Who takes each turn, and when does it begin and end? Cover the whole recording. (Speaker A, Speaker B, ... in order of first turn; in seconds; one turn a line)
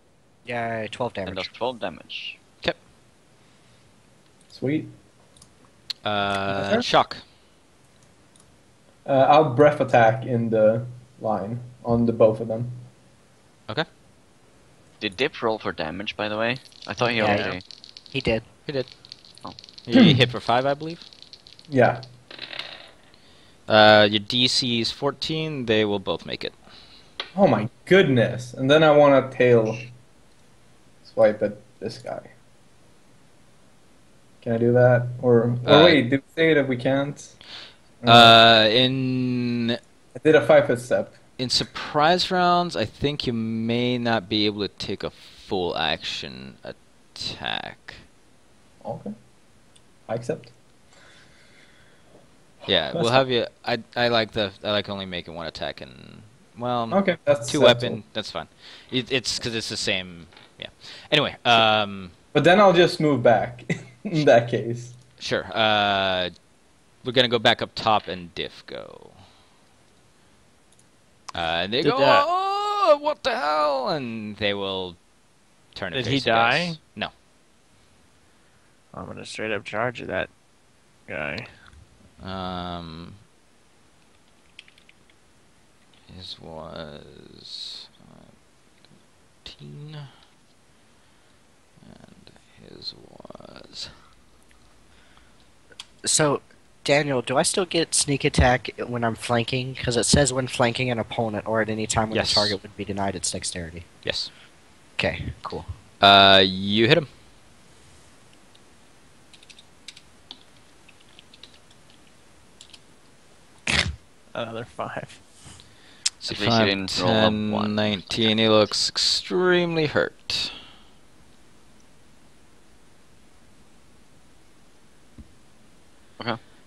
Speaker A: 0.5-1.5
Speaker B: 1.2-2.4
Speaker C: 4.5-4.9
Speaker D: 6.0-7.2
Speaker C: 6.5-6.9
Speaker C: 9.1-12.8
Speaker B: 15.0-17.6
Speaker E: 17.1-17.6
Speaker A: 17.2-17.6
Speaker A: 18.1-18.4
Speaker D: 18.6-18.9
Speaker D: 19.9-21.1
Speaker C: 19.9-20.2
Speaker C: 21.7-22.0
Speaker D: 23.7-26.6
Speaker C: 27.4-29.9
Speaker C: 31.1-32.3
Speaker C: 34.4-37.4
Speaker D: 35.6-36.0
Speaker C: 38.0-38.4
Speaker D: 38.1-39.8
Speaker C: 40.1-41.2
Speaker D: 41.4-48.0
Speaker C: 48.8-49.1
Speaker C: 50.1-50.5
Speaker D: 52.7-62.1
Speaker C: 52.9-53.2
Speaker C: 56.9-58.0
Speaker C: 62.3-65.0
Speaker D: 65.2-66.3
Speaker D: 67.0-69.2
Speaker D: 71.3-75.0
Speaker E: 71.8-72.3
Speaker D: 75.7-77.1
Speaker E: 75.9-76.8
Speaker E: 78.9-80.3
Speaker E: 81.1-81.5
Speaker D: 82.2-83.2
Speaker D: 86.1-88.2
Speaker D: 89.4-90.1
Speaker D: 91.8-93.9
Speaker A: 96.0-103.9
Speaker D: 102.1-102.6
Speaker D: 104.0-104.3
Speaker A: 105.0-105.7
Speaker D: 106.0-107.1
Speaker E: 113.7-115.5
Speaker D: 116.2-120.5
Speaker B: 116.3-118.6